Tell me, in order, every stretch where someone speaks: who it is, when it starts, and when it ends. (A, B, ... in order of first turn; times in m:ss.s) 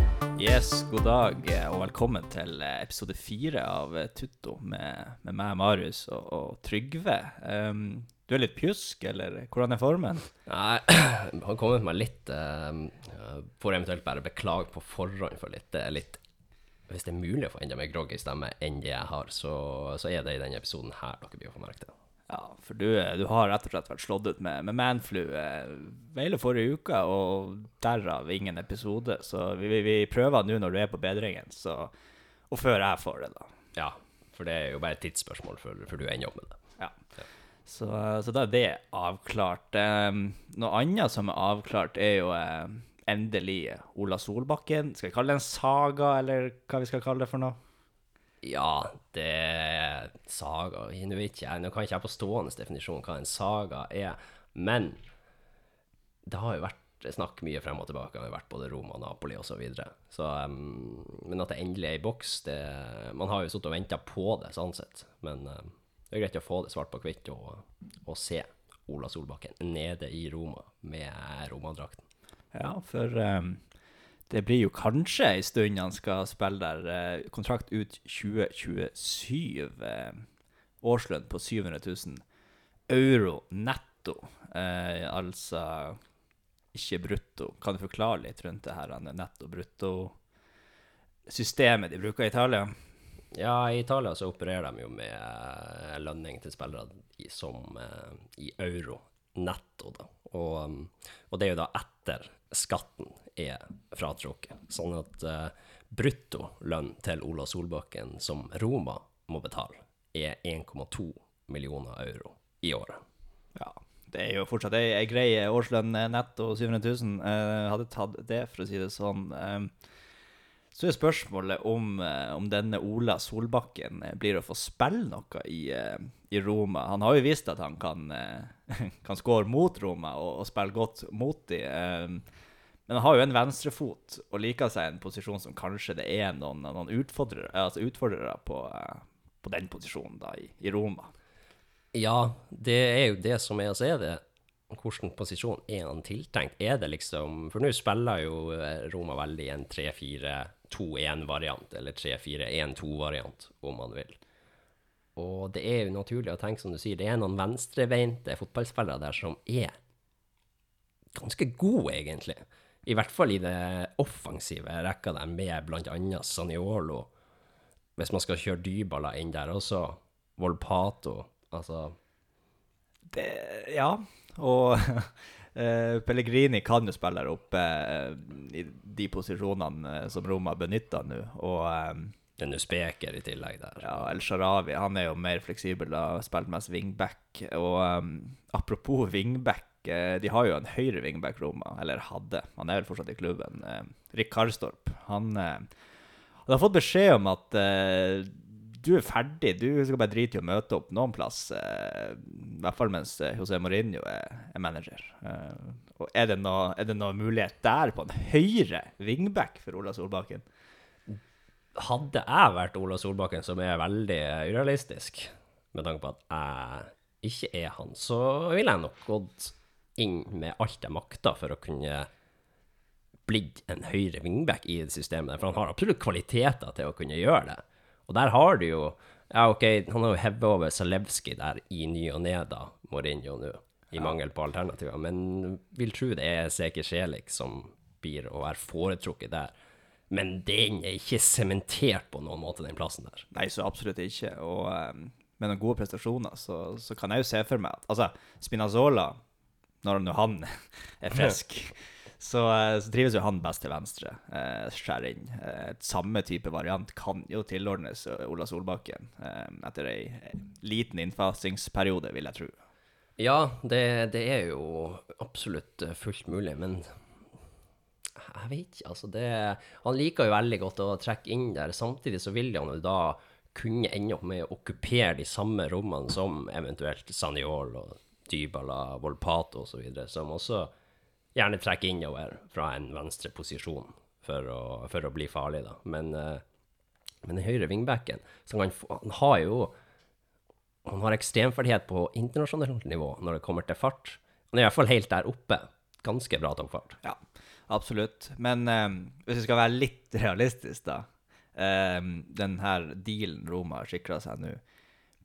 0:00.4-0:10.3 A
0:10.5-0:16.2 B
0:16.9-0:21.9 B
0:22.3-0:31.9 A
0:32.5-0:33.5 A
0:33.8-0:36.6 B
0:37.6-0:47.6 A
0:48.4-0:55.0 B
0:56.2-1:12.0 B
1:12.5-1:13.6 A
1:14.3-1:20.2 A
1:20.8-1:22.2 A
1:22.9-1:26.0 A
1:26.7-1:30.1 A
1:31.3-1:32.7 A
1:33.3-1:53.0 B
1:53.6-1:59.7 A
2:00.7-2:12.2 A
2:12.9-2:21.1 A
2:21.9-2:34.2 B
2:35.2-2:39.7 B
2:41.1-2:47.1 B
2:48.0-2:52.0 B
2:53.1-3:02.1 A
3:02.4-3:04.1 B
3:03.8-3:15.7 A
3:16.4-3:30.4 A
3:31.8-3:42.1 B
3:43.3-3:59.5 B
4:00.1-4:03.3 B
4:03.3-4:09.2 A
4:09.8-4:22.5 A
4:23.2-4:26.9 B
4:28.2-4:40.7 B
4:41.3-4:46.4 B
4:47.2-4:49.7 B
4:50.8-4:57.0 B
4:57.0-5:04.6 A